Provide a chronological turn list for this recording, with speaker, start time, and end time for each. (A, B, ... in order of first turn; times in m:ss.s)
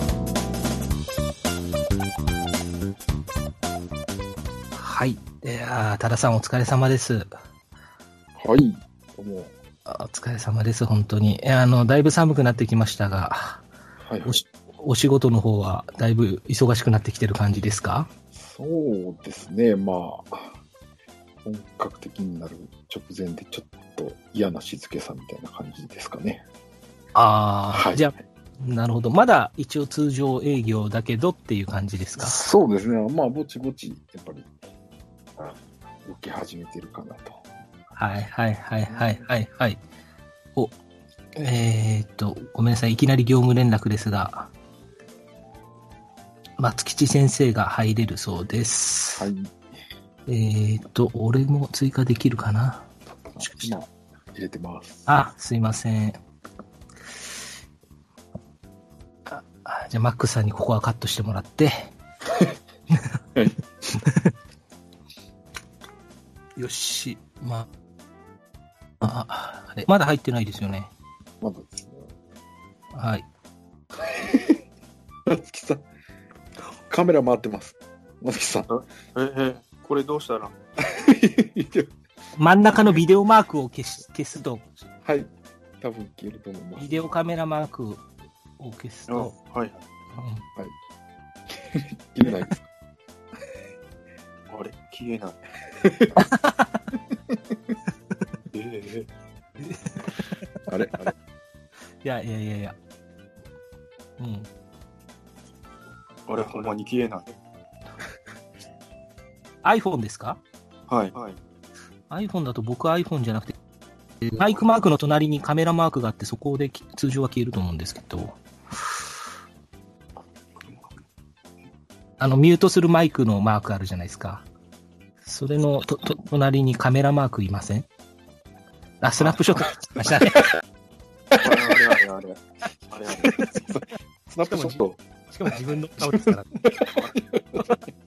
0:04.7-0:07.3 A
0:08.4-0:09.5 B
0:09.8-0:13.6 A
0:14.0-0:14.4 B
0:14.2-0:18.1 A
0:18.3-0:20.6 B
0:21.4-0:26.4 B
0:27.1-0:32.4 A
0:27.7-0:28.1 B
0:32.2-0:34.5 B
0:36.0-0:37.4 B
0:38.0-0:39.8 A
0:38.9-0:39.2 B
0:41.4-0:44.5 A
0:46.6-0:49.3 A
0:49.2-0:49.5 B
0:50.3-0:52.9 A
0:53.3-0:55.1 B
0:53.4-0:53.7 A
0:55.0-0:56.2 A
0:59.2-1:01.9 A
1:06.6-1:07.7 A
1:09.0-1:10.9 A
1:11.4-1:12.1 B
1:12.9-1:13.2 A
1:15.3-1:15.8 B
1:16.9-1:18.7 B
1:18.7-1:20.5 C
1:20.8-1:21.9 B
1:22.4-1:24.7 A
1:25.0-1:26.9 B
1:26.8-1:28.0 A
1:28.6-1:29.3 A
1:29.1-1:29.8 C
1:30.1-1:30.4 A
1:31.7-1:32.6 B
1:34.5-1:35.4 C
1:35.8-1:36.2 B
1:38.5-1:39.1 C
1:39.6-1:40.1 A
1:40.7-1:41.1 B
1:42.0-1:42.8 A
1:44.2-1:44.5 A
1:46.3-1:47.3 C
1:46.4-1:46.7 B
1:49.6-1:50.4 A
1:50.9-1:51.4 C
1:52.1-1:53.5 A
1:54.2-1:58.4 A
2:02.2-2:04.4 A
2:05.2-2:07.9 A
2:09.0-2:10.5 A
2:11.4-2:12.2 C
2:11.4-2:12.4 B
2:12.9-2:13.4 C
2:13.1-2:15.0 B
2:14.4-2:16.6 A
2:16.0-2:17.8 B